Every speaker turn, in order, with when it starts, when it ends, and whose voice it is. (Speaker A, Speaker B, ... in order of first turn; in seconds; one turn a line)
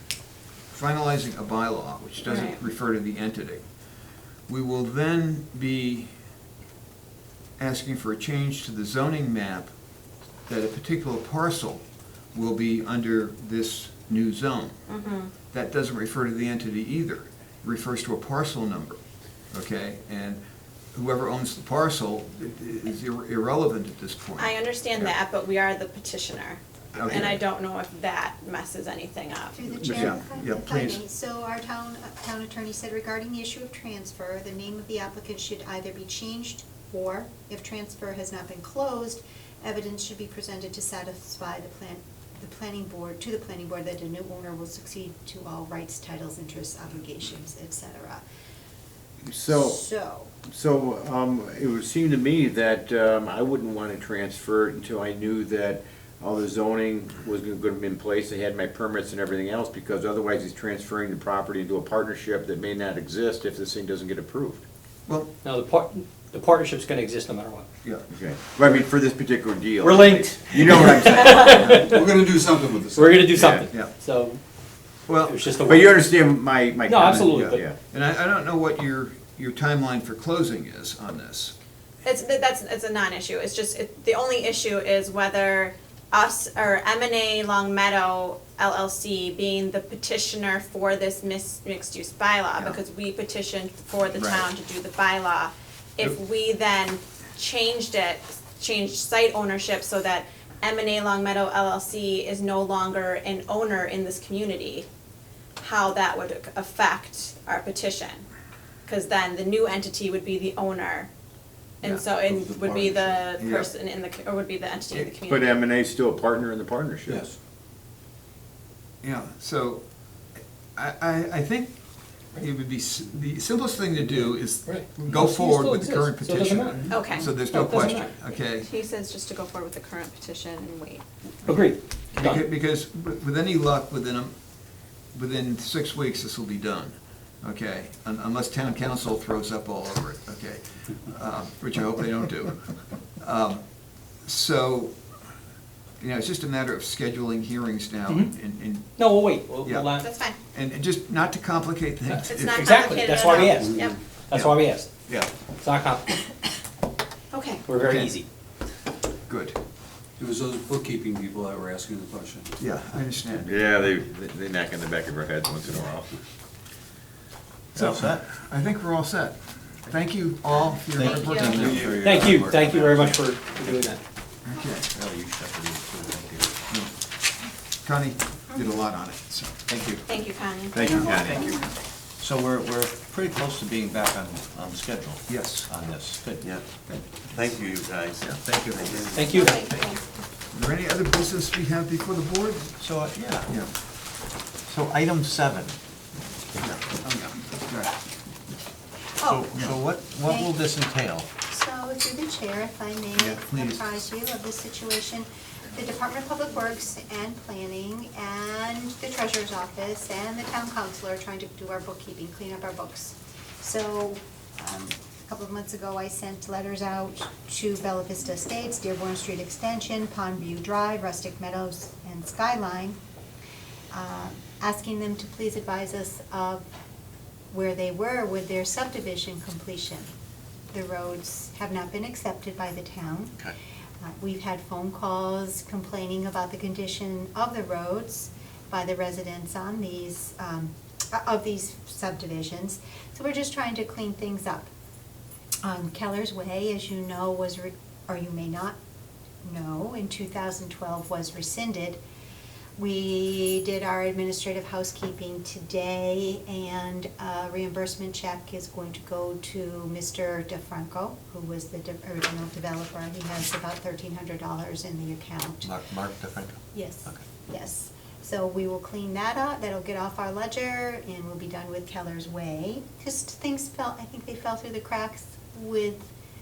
Speaker A: 0.7-3.7
Speaker B: 2.2-2.6
Speaker A: 4.5-6.2
Speaker A: 7.6-9.7
Speaker A: 10.5-14.7
Speaker B: 14.9-15.3
Speaker A: 15.5-20.4
Speaker A: 20.9-25.1
Speaker B: 24.4-29.6
Speaker A: 26.9-27.4
Speaker C: 29.5-48.2
Speaker D: 29.8-30.1
Speaker A: 29.9-31.0
Speaker D: 49.2-49.8
Speaker C: 49.5-50.3
Speaker D: 50.5-64.6
Speaker A: 65.1-65.3
Speaker E: 65.4-67.7
Speaker D: 68.1-71.7
Speaker E: 69.8-72.1
Speaker F: 71.7-73.5
Speaker E: 72.9-74.4
Speaker A: 73.4-73.9
Speaker A: 75.1-75.5
Speaker E: 75.2-76.0
Speaker D: 75.6-77.8
Speaker E: 76.8-77.6
Speaker A: 77.0-81.5
Speaker B: 82.0-104.9
Speaker A: 94.1-94.5
Speaker B: 105.6-108.2
Speaker B: 108.8-111.1
Speaker B: 111.8-115.5
Speaker F: 112.1-113.3
Speaker A: 113.3-113.7
Speaker A: 114.9-115.2
Speaker D: 115.2-117.3
Speaker A: 119.0-119.9
Speaker A: 120.8-121.8
Speaker A: 122.3-128.7
Speaker E: 124.6-128.1
Speaker B: 126.9-131.0
Speaker E: 131.4-132.4
Speaker A: 132.1-134.3
Speaker A: 135.1-143.6
Speaker A: 144.2-145.0
Speaker A: 146.0-152.7
Speaker E: 148.9-150.1
Speaker B: 150.0-150.4
Speaker E: 152.0-154.9
Speaker B: 152.3-154.0
Speaker F: 153.7-154.0
Speaker A: 154.3-155.3
Speaker E: 155.6-156.2
Speaker B: 157.3-157.6
Speaker E: 157.7-158.2
Speaker A: 157.8-158.2
Speaker A: 159.3-159.6
Speaker F: 160.2-162.5
Speaker A: 162.6-163.7
Speaker D: 163.4-166.2
Speaker G: 167.7-168.2
Speaker A: 167.7-172.1
Speaker G: 170.9-173.9
Speaker B: 171.0-171.8
Speaker F: 171.6-172.2
Speaker E: 172.0-174.0
Speaker A: 174.5-174.9
Speaker G: 175.0-176.4
Speaker D: 175.0-175.9
Speaker A: 177.8-180.0
Speaker B: 180.1-181.5
Speaker D: 180.7-181.6
Speaker C: 180.9-181.5
Speaker G: 182.2-186.7
Speaker A: 185.3-185.7
Speaker A: 186.8-187.5
Speaker G: 187.2-189.8
Speaker E: 189.1-189.6
Speaker B: 189.2-190.0
Speaker A: 190.5-192.8
Speaker G: 192.8-193.5
Speaker A: 193.4-193.7
Speaker G: 194.7-195.8
Speaker A: 196.6-197.9
Speaker C: 199.2-200.5
Speaker G: 199.2-201.3
Speaker C: 201.5-223.0
Speaker G: 203.2-203.9
Speaker C: 223.9-226.7
Speaker C: 227.5-230.1
Speaker C: 230.7-244.7
Speaker C: 245.6-248.8
Speaker C: 249.4-252.0
Speaker C: 252.8-265.7
Speaker G: 265.6-266.5
Speaker C: 266.7-276.1